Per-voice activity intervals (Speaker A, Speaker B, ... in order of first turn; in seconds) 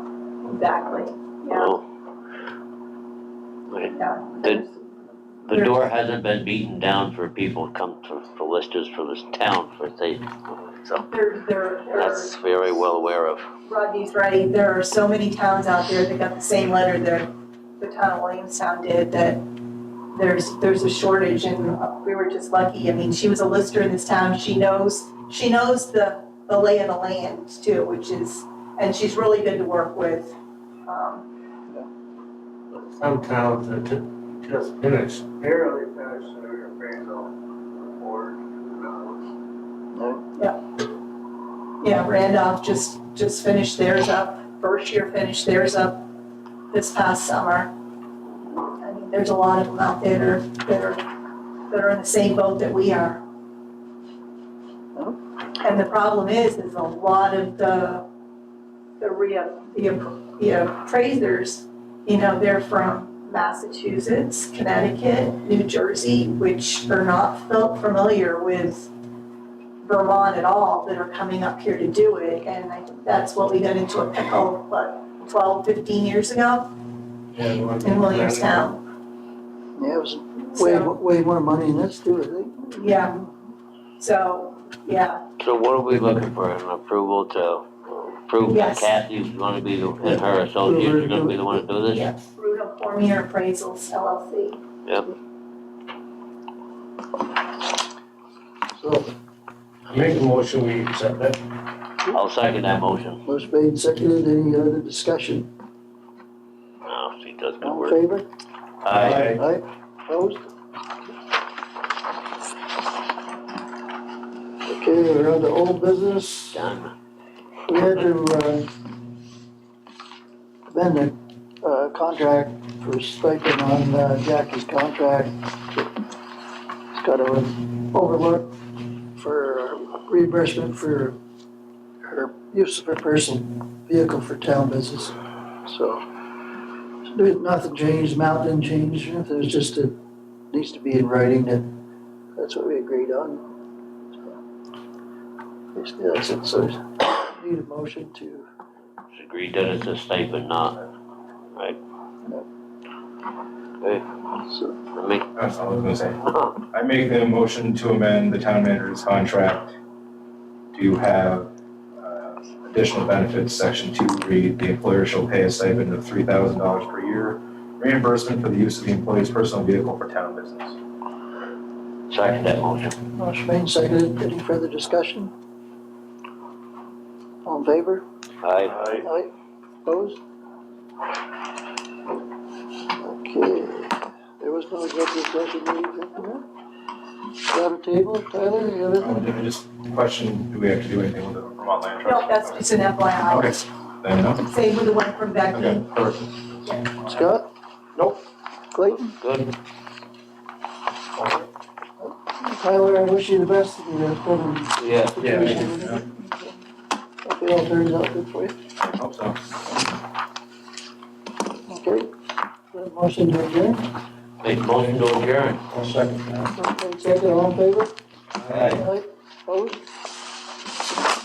Speaker A: 0.4-1.7, 3.9-4.7, 5.5-5.9, 11.1-12.4, 13.7-19.4, 20.1-30.3, 30.9-31.2, 41.8-46.1, 46.7-47.7, 48.8-51.0, 51.7-53.2, 55.6-58.0, 59.0-68.9, 69.8-76.7, 77.8-78.8, 80.5-81.0, 82.7-83.2, 84.0-85.2, 88.5-88.9, 91.9-94.6, 192.0-193.7, 194.4-195.9, 196.6-196.9
Speaker B: 1.5-1.8, 3.7-4.6, 5.5-11.1, 11.9-13.4, 85.4-92.1, 102.1-103.2, 106.8-108.0, 108.8-109.4, 116.5-116.9, 149.1-150.8, 154.9-155.2, 156.2-156.6, 172.1-172.9, 178.4-178.8, 199.2-199.5, 204.8-205.4, 214.4-215.6
Speaker C: 32.7-36.0, 77.3-78.7, 99.9-101.4, 201.2-201.5, 205.2-205.7, 215.7-216.5
Speaker D: 35.5-39.2
Speaker E: 39.9-40.2, 79.8-83.3, 90.0-91.6, 98.8-99.1, 103.2-105.5, 107.6-108.3, 109.0-110.5, 114.7-116.6, 117.7-118.7, 120.7-125.9, 126.9-128.5, 129.1-131.2, 132.0-136.0, 137.0-139.9, 140.5-141.7, 142.3-143.5, 145.7-148.5, 154.4-154.8, 173.2-175.3, 177.4-178.0, 179.0-179.3, 179.8-180.2, 183.0-186.4, 187.5-189.2, 197.1-197.5, 198.7-199.2, 202.0-206.6, 207.2-208.6, 211.7-212.1, 212.7-213.9, 216.6-217.9, 218.6-219.8
Speaker F: 109.0-109.4, 155.3-159.7, 160.7-170.8, 189.0-192.7, 193.3-194.4, 195.5-196.5, 208.8-209.4, 218.3-218.8